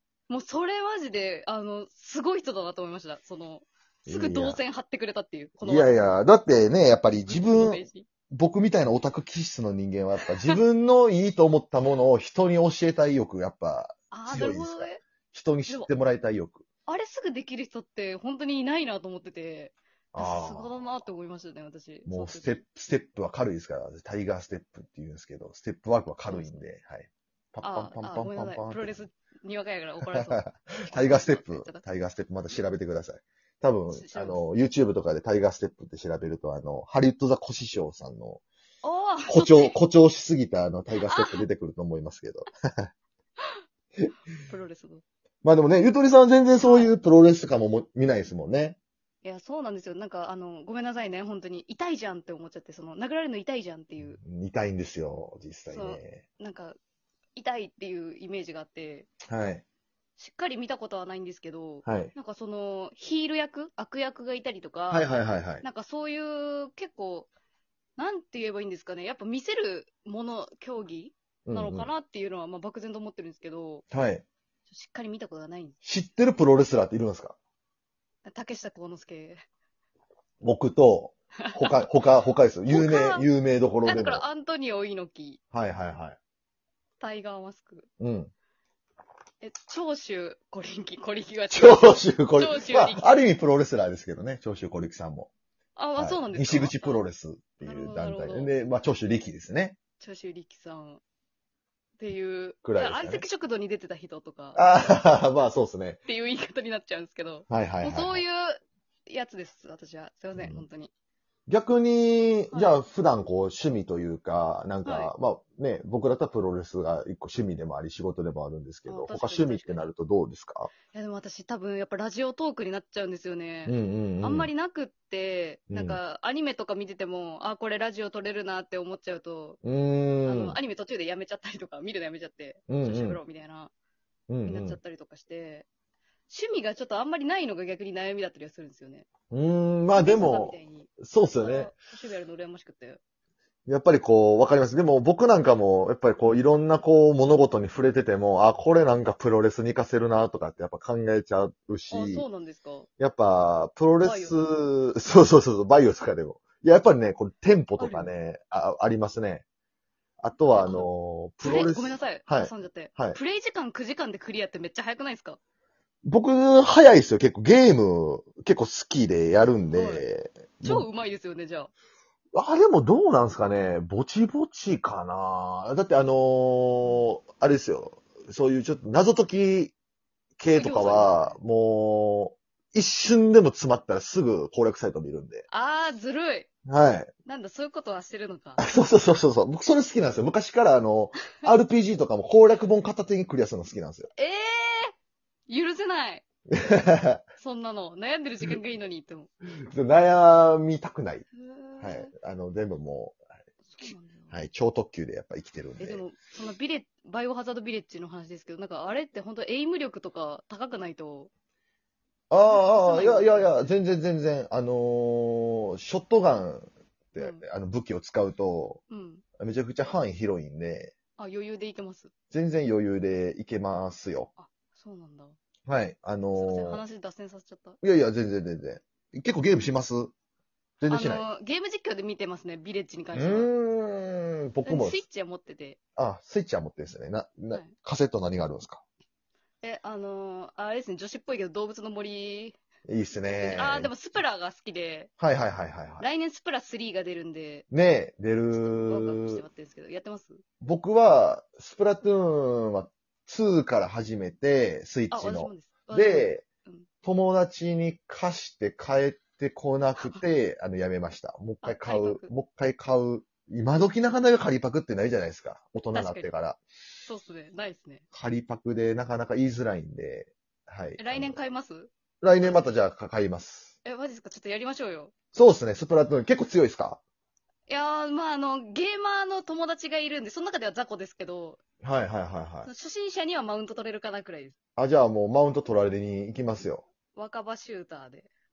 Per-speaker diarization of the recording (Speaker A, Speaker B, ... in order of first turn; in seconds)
Speaker A: 0.3-6.1, 7.3-8.1, 14.1-15.0, 16.9-22.6, 26.3-26.6, 27.6-31.8, 33.9-34.4, 38.8-39.8, 41.0-41.5, 44.5-45.0, 46.6-46.9, 49.2-54.2, 55.7-56.8, 57.4-59.1, 60.2-65.1, 65.6-67.3, 68.0-73.8, 74.7-75.8, 78.2-79.4, 81.4-81.7, 82.7-83.3, 83.8-85.4, 87.0-87.9, 89.4-93.1, 95.8-97.0, 97.6-98.5, 100.0-101.0, 102.0-104.6, 106.0-110.9, 112.5-112.8, 114.8-115.1, 118.9-119.8, 120.9-129.6, 130.2-133.7, 134.4-135.7, 136.3-139.1, 139.9-143.0, 151.9-152.9, 154.0-154.4, 157.8-158.1, 160.5-160.9, 161.4-165.4, 169.7-170.1, 170.6-171.7, 180.5-181.4, 185.5-186.5, 187.2-188.6, 194.1-194.9, 195.5-196.2, 197.4-199.3, 201.3-202.1, 203.7-204.3, 205.8-211.3, 212.5-213.6, 217.2-217.4, 218.9-219.2, 221.2-222.1, 224.4-225.3, 226.3-227.8, 230.9-233.5, 234.6-235.8, 239.6-242.6, 243.3-245.1, 246.0-247.7, 248.6-250.4, 255.1-256.9, 261.6-262.3, 265.9-266.3, 267.1-268.0, 271.0-272.6, 273.8-275.1, 277.7-281.6, 282.6-284.6, 287.1-288.3
Speaker B: 4.1-4.6, 5.6-16.6, 20.1-20.9, 22.1-29.0, 30.1-38.4, 39.3-42.9, 45.4-48.8, 54.0-56.2, 59.3-59.6, 61.8-62.1, 64.9-65.6, 71.5-71.9, 73.9-74.2, 75.8-77.3, 80.4-84.2, 85.5-86.2, 88.0-88.3, 91.5-95.3, 96.0-99.8, 102.6-103.2, 104.5-106.0, 107.5-108.2, 110.3-110.6, 111.5-120.7, 123.7-124.5, 125.7-126.0, 129.6-130.6, 132.7-133.2, 134.3-134.8, 139.3-141.7, 143.7-152.2, 153.0-159.4, 160.2-163.2, 166.0-170.9, 172.3-179.7, 180.4-185.4, 186.7-187.1, 188.6-194.1, 196.5-197.2, 199.7-201.2, 201.8-203.2, 204.3-206.0, 212.3-218.8, 219.4-220.9, 222.3-224.3, 225.7-226.8, 227.8-230.1, 230.8-231.2, 233.1-235.0, 236.0-238.8, 242.9-243.9, 245.2-246.1, 247.7-249.4, 250.6-256.4, 257.0-266.6, 268.1-271.4, 272.2-273.7, 275.3-277.0, 281.8-282.7, 284.8-286.8